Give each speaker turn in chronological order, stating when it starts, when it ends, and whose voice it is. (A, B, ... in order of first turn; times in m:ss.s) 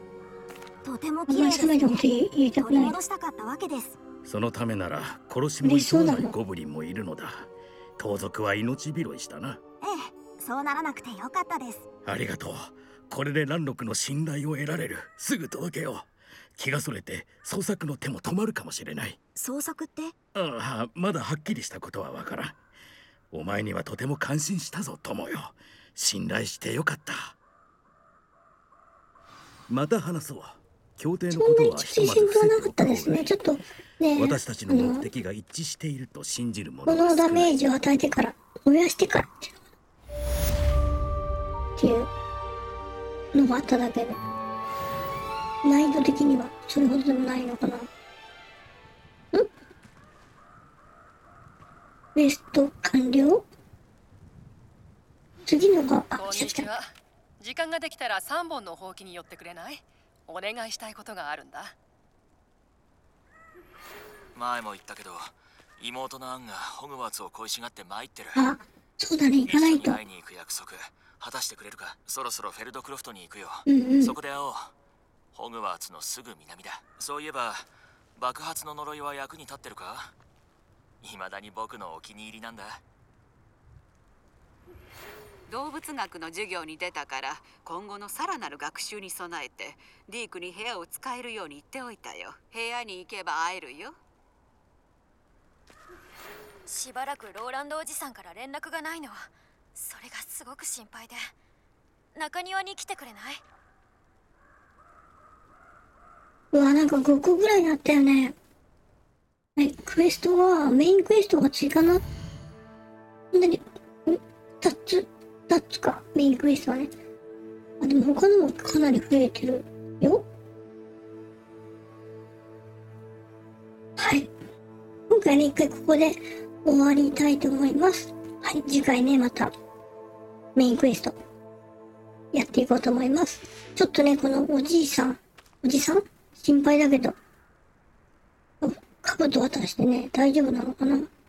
0:00.8-0:02.0 A
0:01.3-0:03.0 B
0:02.6-0:04.0 A
0:04.2-0:09.6 C
0:05.6-0:06.3 B
0:09.8-0:11.9 A
0:12.0-0:19.2 C
0:19.4-0:20.1 A
0:20.3-0:22.6 C
0:23.3-0:27.4 C
0:29.7-0:33.3 C
0:31.3-0:35.1 B
0:34.2-0:37.6 C
0:36.8-0:39.6 B
0:41.8-0:42.1 B
0:43.3-0:44.2 B
0:45.6-0:47.9 B
0:52.1-0:53.4 B
0:55.4-0:56.7 B
0:56.2-1:01.8 D
1:04.3-1:08.6 E
1:08.3-1:10.0 B
1:09.4-1:14.7 E
1:13.7-1:14.1 B
1:15.3-1:20.1 E
1:21.0-1:22.8 E
1:25.5-1:34.0 F
1:36.7-1:41.3 G
1:42.1-1:43.4 G
1:46.5-1:48.4 B
1:49.6-1:52.0 B
1:53.3-1:56.9 B
1:57.8-2:00.2 B
2:04.0-2:04.3 B
2:05.1-2:09.5 B
2:10.6-2:11.2 B
2:12.3-2:17.2 B
2:18.6-2:21.1 B